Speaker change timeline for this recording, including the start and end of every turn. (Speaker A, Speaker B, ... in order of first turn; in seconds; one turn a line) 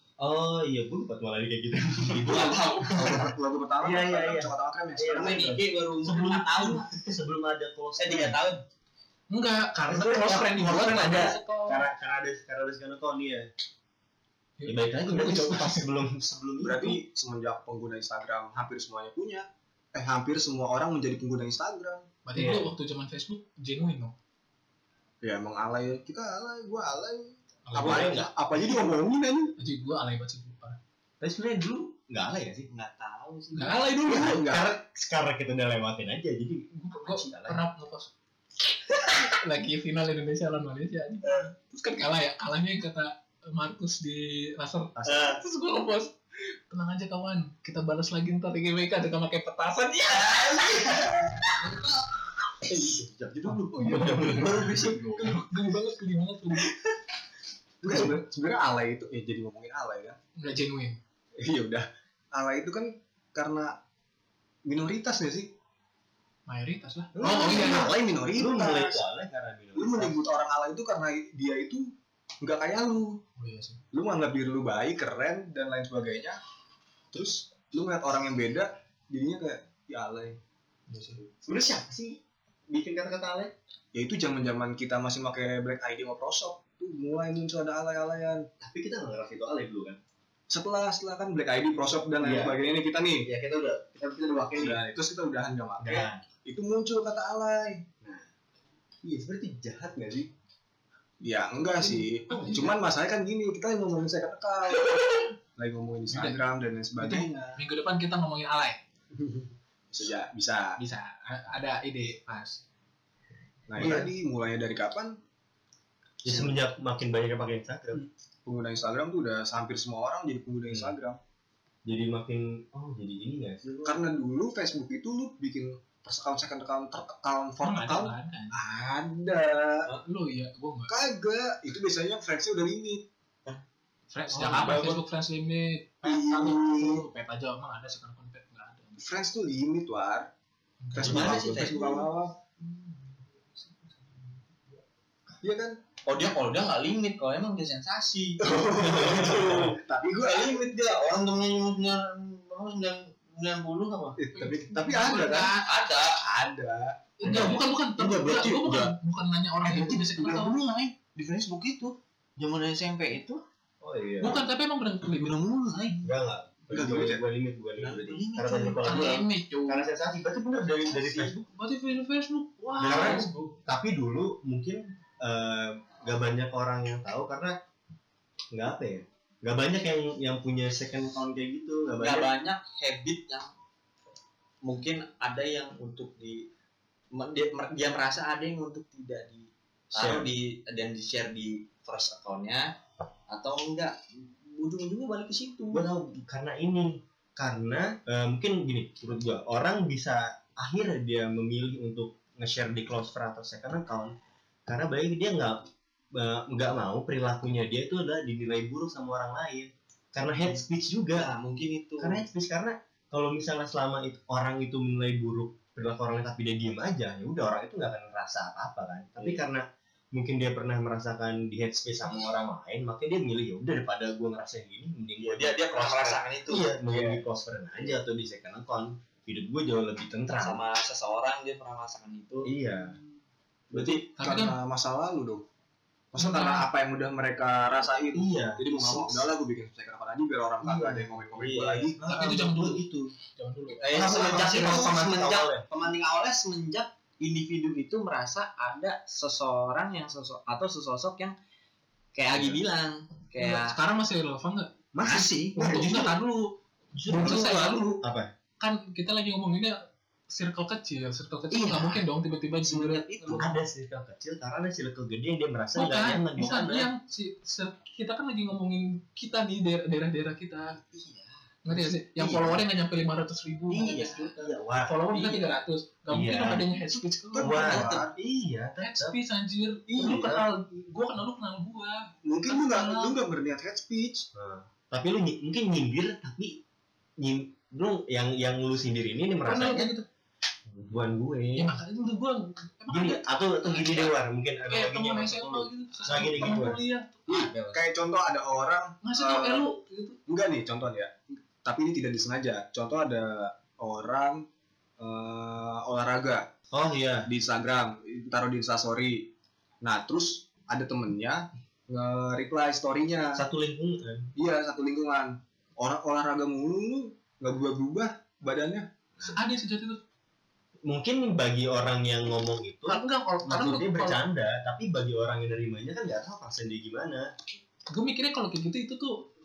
Speaker A: 0.2-8.4
Speaker B: 2.2-3.2
Speaker C: 2.8-5.6
Speaker B: 5.1-6.8
Speaker B: 8.0-8.6
Speaker D: 9.3-11.8
Speaker A: 9.8-13.5
Speaker D: 14.6-15.9
Speaker A: 14.7-17.0
Speaker C: 16.6-22.1
Speaker D: 22.2-24.1
Speaker A: 22.3-22.8
Speaker C: 25.2-29.6
Speaker D: 27.7-28.2
Speaker A: 27.7-28.3
Speaker D: 29.6-30.8
Speaker A: 31.2-32.7
Speaker B: 32.7-34.0
Speaker D: 33.5-34.5
Speaker C: 34.0-34.8
Speaker A: 34.1-37.6
Speaker D: 36.7-38.1
Speaker D: 39.0-46.2
Speaker A: 45.0-45.4
Speaker D: 46.7-51.3
Speaker B: 50.4-51.0
Speaker A: 52.7-55.0
Speaker C: 53.5-55.1
Speaker D: 53.8-56.7
Speaker B: 54.1-55.2
Speaker C: 57.8-60.2
Speaker D: 60.4-61.0
Speaker C: 61.4-63.8
Speaker C: 64.7-65.5
Speaker D: 66.5-67.9
Speaker A: 67.2-70.2
Speaker C: 67.2-69.0
Speaker C: 69.8-73.2
Speaker D: 73.4-73.8
Speaker C: 73.9-76.4
Speaker C: 77.1-80.4
Speaker C: 80.9-81.2
Speaker A: 81.4-83.5
Speaker C: 83.9-88.5
Speaker A: 88.6-90.0
Speaker C: 90.5-93.3
Speaker A: 92.2-92.6
Speaker A: 93.2-94.8
Speaker C: 94.5-97.8
Speaker A: 95.8-96.2
Speaker A: 98.0-98.3
Speaker A: 99.0-100.3
Speaker C: 101.2-107.6
Speaker D: 101.8-102.8
Speaker D: 104.8-105.3
Speaker D: 106.1-108.8
Speaker C: 109.2-110.8
Speaker D: 110.8-112.6
Speaker C: 113.7-115.2
Speaker A: 113.8-114.1
Speaker A: 116.2-118.1
Speaker C: 116.2-116.5
Speaker C: 118.5-121.2
Speaker A: 121.8-123.7
Speaker C: 123.8-129.9
Speaker D: 127.6-128.6
Speaker D: 130.0-130.9
Speaker C: 130.9-133.0
Speaker D: 134.1-139.1
Speaker B: 134.4-134.8
Speaker A: 134.5-134.9
Speaker C: 136.0-137.1
Speaker C: 139.0-140.3
Speaker D: 140.8-141.4
Speaker C: 140.9-142.4
Speaker B: 141.0-142.1
Speaker C: 145.4-145.8
Speaker B: 146.1-154.2
Speaker C: 148.4-150.9
Speaker A: 149.0-149.5
Speaker C: 154.2-155.5
Speaker D: 154.3-155.7
Speaker B: 155.6-156.2
Speaker C: 156.2-157.1
Speaker D: 157.2-160.6
Speaker B: 157.2-158.9
Speaker A: 157.3-157.6
Speaker B: 159.6-163.4
Speaker A: 163.8-164.5
Speaker D: 164.2-165.4
Speaker B: 165.0-166.0
Speaker A: 166.0-171.4
Speaker C: 166.7-167.2
Speaker B: 167.8-169.2
Speaker D: 168.8-169.8
Speaker B: 170.9-171.2
Speaker D: 171.4-173.6
Speaker A: 172.8-177.6
Speaker A: 178.5-182.3
Speaker B: 182.0-183.5
Speaker B: 184.6-186.5
Speaker B: 187.1-192.7
Speaker A: 189.9-190.3
Speaker B: 193.3-195.9
Speaker A: 195.7-204.1
Speaker A: 204.7-211.3
Speaker B: 211.2-212.3
Speaker A: 212.0-219.6
Speaker A: 220.1-230.6
Speaker B: 225.2-227.2
Speaker B: 230.4-232.5
Speaker A: 232.4-233.0
Speaker C: 233.7-235.4
Speaker A: 233.7-234.0
Speaker D: 234.2-234.6
Speaker C: 236.1-242.0
Speaker D: 236.2-236.7
Speaker A: 238.1-239.3
Speaker A: 240.6-243.1
Speaker D: 242.1-242.8
Speaker D: 243.4-243.9
Speaker B: 243.8-251.3
Speaker C: 243.9-245.0
Speaker A: 243.9-245.7
Speaker B: 252.2-253.8
Speaker A: 252.3-252.6
Speaker D: 253.4-254.7
Speaker A: 254.9-256.1
Speaker B: 255.0-255.7
Speaker D: 255.6-258.0
Speaker B: 257.0-257.8
Speaker A: 258.0-258.3
Speaker D: 258.6-263.5
Speaker B: 261.5-262.1
Speaker B: 262.6-263.5
Speaker A: 263.3-266.9
Speaker D: 265.8-270.8
Speaker B: 270.8-271.4
Speaker D: 271.6-277.8
Speaker A: 272.1-272.6
Speaker B: 273.7-274.4
Speaker A: 273.7-275.4
Speaker A: 276.1-276.6
Speaker C: 277.3-278.1
Speaker A: 277.4-279.2
Speaker B: 277.5-278.1
Speaker D: 278.8-283.2
Speaker C: 279.9-280.3
Speaker A: 280.0-280.4
Speaker C: 282.2-284.3
Speaker A: 284.3-286.6
Speaker A: 287.2-289.9
Speaker D: 289.5-290.1
Speaker A: 290.7-291.8
Speaker D: 291.6-294.0
Speaker A: 292.9-296.8
Speaker D: 294.7-297.5
Speaker C: 297.3-299.7
Speaker B: 297.3-297.8
Speaker D: 299.0-300.2
Speaker C: 300.3-304.5
Speaker C: 305.0-306.5
Speaker A: 306.7-307.3
Speaker C: 307.3-309.3
Speaker C: 309.8-313.4
Speaker A: 313.3-314.3
Speaker C: 314.4-318.9
Speaker D: 319.2-320.0
Speaker A: 320.9-327.3
Speaker D: 322.9-324.2
Speaker D: 327.9-329.3